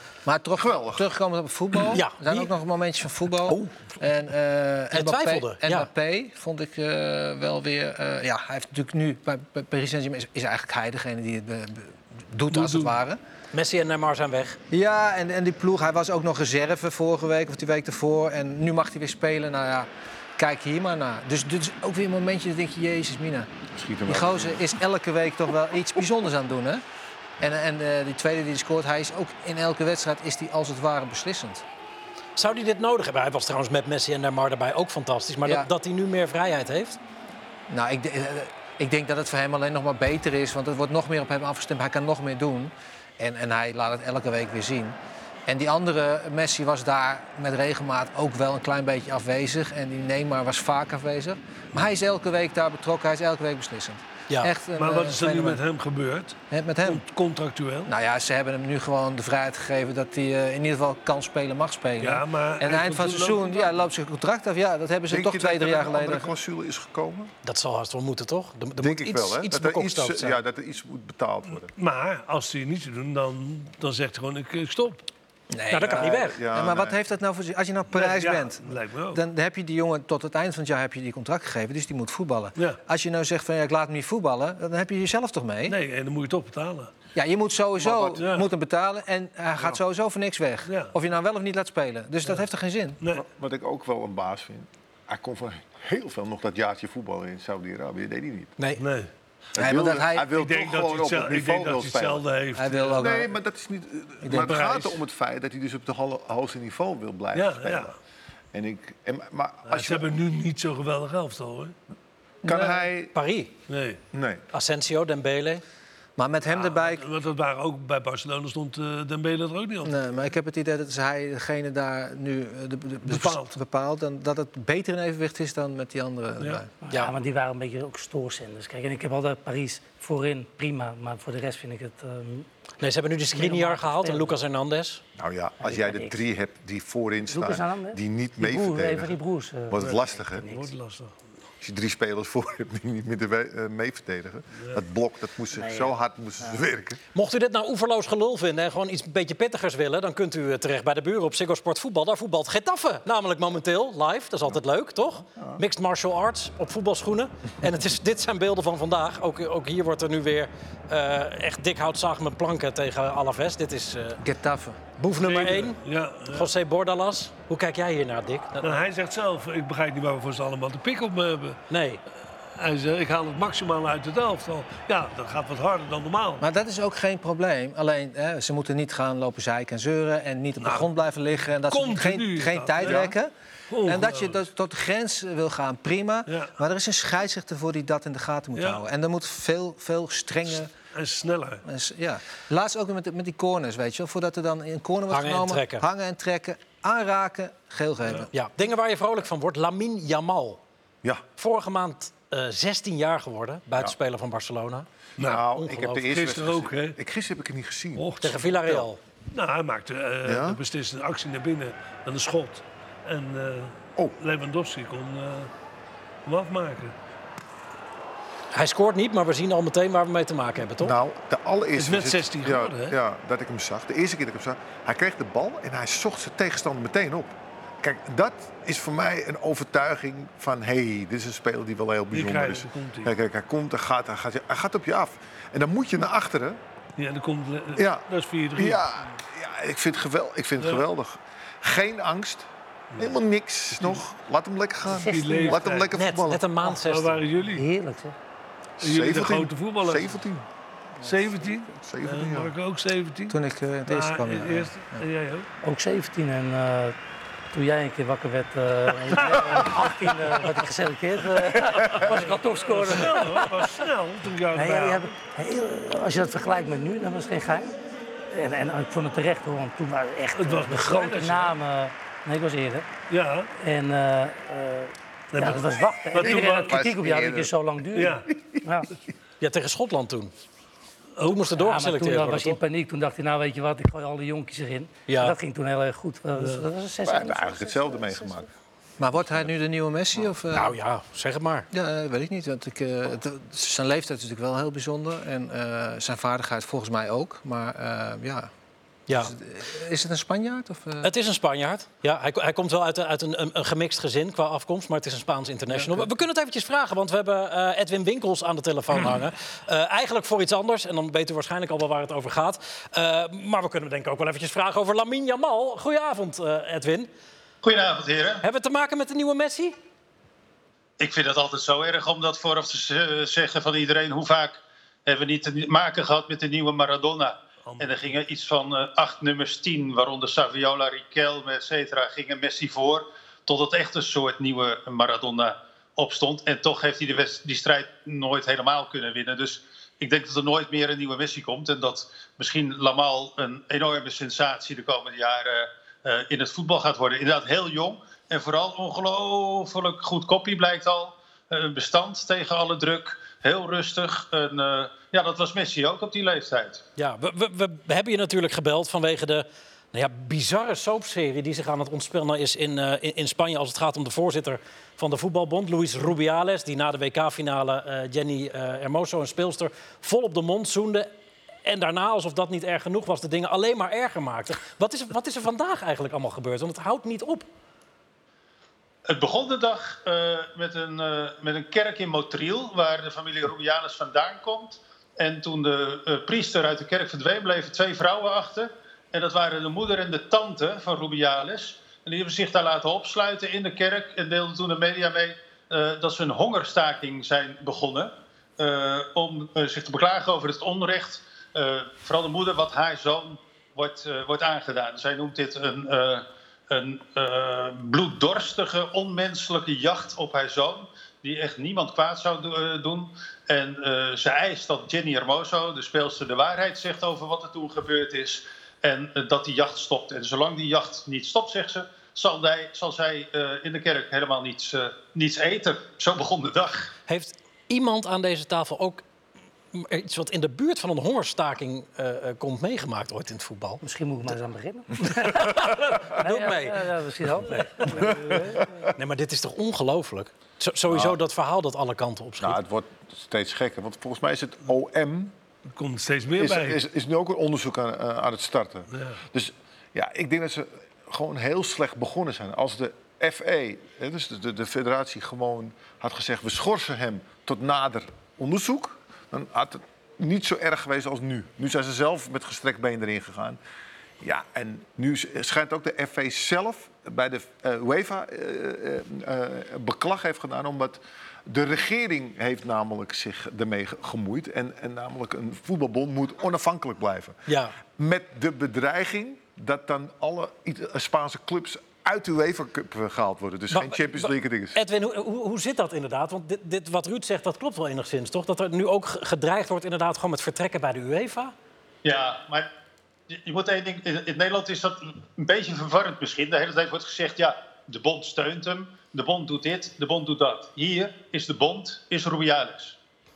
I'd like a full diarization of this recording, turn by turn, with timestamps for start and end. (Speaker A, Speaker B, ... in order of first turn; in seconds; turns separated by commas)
Speaker A: 0.3-13.2, Speaker B: 0.6-1.1, Speaker C: 1.9-2.5, Speaker C: 4.9-5.9, Speaker D: 12.5-13.0, Speaker C: 13.5-14.6, Speaker A: 14.7-23.5, Speaker B: 23.7-24.6, Speaker A: 24.1-26.8, Speaker A: 27.4-31.6, Speaker C: 32.4-37.0, Speaker A: 37.7-55.6, Speaker D: 54.8-57.9, Speaker A: 56.5-57.0, Speaker A: 57.9-66.3, Speaker D: 62.0-63.7, Speaker B: 65.1-67.3, Speaker C: 67.4-70.4, Speaker B: 68.8-71.7, Speaker D: 71.7-75.0, Speaker A: 75.5-85.8, Speaker C: 75.7-76.4, Speaker B: 75.9-77.0, Speaker D: 77.9-79.2, Speaker D: 85.7-86.9, Speaker A: 87.2-93.0, Speaker B: 87.8-88.3, Speaker D: 88.2-88.5, Speaker D: 90.7-90.9, Speaker B: 93.1-98.5, Speaker D: 98.8-99.1, Speaker B: 99.5-102.2, Speaker A: 99.6-100.3, Speaker D: 100.3-103.1, Speaker A: 102.5-103.3, Speaker B: 103.0-108.0, Speaker A: 104.2-104.7, Speaker D: 104.3-105.0, Speaker D: 107.3-107.9, Speaker B: 108.5-110.1, Speaker D: 109.7-111.8, Speaker A: 112.4-112.9, Speaker B: 112.4-113.1, Speaker C: 113.1-113.5, Speaker D: 113.7-114.0, Speaker B: 114.1-114.4, Speaker C: 114.5-115.6, Speaker A: 116.2-117.0, Speaker D: 116.6-119.9, Speaker A: 119.8-126.7, Speaker D: 123.1-123.6, Speaker E: 126.8-132.5, Speaker C: 132.8-135.0, Speaker E: 133.3-134.4, Speaker B: 135.2-139.2, Speaker E: 135.6-136.2, Speaker E: 137.3-140.7, Speaker B: 139.7-140.4, Speaker D: 139.8-141.2, Speaker B: 141.6-147.0, Speaker E: 145.5-146.6, Speaker C: 147.2-164.2, Speaker A: 164.2-164.8, Speaker C: 165.0-168.7, Speaker D: 165.2-166.5, Speaker D: 168.6-171.6, Speaker C: 171.7-172.0, Speaker D: 172.6-176.4, Speaker A: 176.4-190.7, Speaker D: 180.6-180.9, Speaker D: 181.7-183.1, Speaker D: 183.7-184.4, Speaker D: 186.3-186.5, Speaker D: 188.6-188.8, Speaker D: 190.9-191.6, Speaker A: 191.7-198.3, Speaker C: 195.1-195.8, Speaker C: 198.3-200.6, Speaker C: 201.4-204.9, Speaker D: 205.2-205.4, Speaker B: 205.2-208.1, Speaker C: 205.6-206.1, Speaker D: 206.1-207.0, Speaker D: 208.0-208.4, Speaker C: 208.2-209.0, Speaker D: 209.3-215.5, Speaker B: 210.2-210.6, Speaker D: 216.2-216.9, Speaker C: 218.5-220.9, Speaker B: 220.8-236.6, Speaker D: 221.8-223.0, Speaker D: 232.1-233.1, Speaker D: 237.0-238.8, Speaker B: 237.8-242.5, Speaker D: 240.6-240.8, Speaker B: 243.0-246.4, Speaker E: 244.9-245.6, Speaker D: 245.0-245.9, Speaker C: 245.9-247.2, Speaker D: 246.8-247.7, Speaker E: 247.4-248.1, Speaker B: 248.8-250.5, Speaker D: 248.8-250.2, Speaker D: 251.0-255.5, Speaker B: 251.7-252.5, Speaker A: 253.3-255.0, Speaker E: 255.6-257.0, Speaker E: 257.5-263.7, Speaker D: 259.1-259.6, Speaker D: 261.9-265.1, Speaker E: 264.5-267.7, Speaker E: 268.3-272.9, Speaker D: 270.4-271.6, Speaker D: 273.1-273.5, Speaker E: 273.6-278.9, Speaker D: 275.3-276.8, Speaker B: 276.2-277.5, Speaker D: 277.9-278.3, Speaker C: 279.4-280.3, Speaker C: 281.2-282.6, Speaker E: 281.6-288.4, Speaker C: 285.1-285.4, Speaker D: 286.4-286.6, Speaker B: 287.0-288.5, Speaker A: 289.0-290.8, Speaker C: 290.5-291.7, Speaker A: 291.7-298.5, Speaker C: 299.1-299.3, Speaker A: 299.1-301.1, Speaker C: 301.0-317.1, Speaker A: 305.7-306.1, Speaker F: 317.6-318.4, Speaker C: 318.4-319.8, Speaker F: 321.0-356.8, Speaker D: 327.7-328.1, Speaker C: 357.0-371.1, Speaker C: 371.6-377.5, Speaker F: 379.1-426.9, Speaker C: 427.1-429.0, Speaker C: 429.7-433.8, Speaker E: 433.8-438.7, Speaker C: 435.2-436.9, Speaker C: 437.5-437.8, Speaker B: 437.9-438.7, Speaker C: 439.0-442.6, Speaker B: 440.9-441.2, Speaker B: 442.4-445.3, Speaker D: 445.8-446.8, Speaker B: 446.4-463.6, Speaker D: 448.9-449.2, Speaker B: 464.2-477.4, Speaker C: 477.5-477.8, Speaker B: 478.0-484.8, Speaker C: 483.7-491.5, Speaker F: 492.0-492.7, Speaker F: 493.3-503.0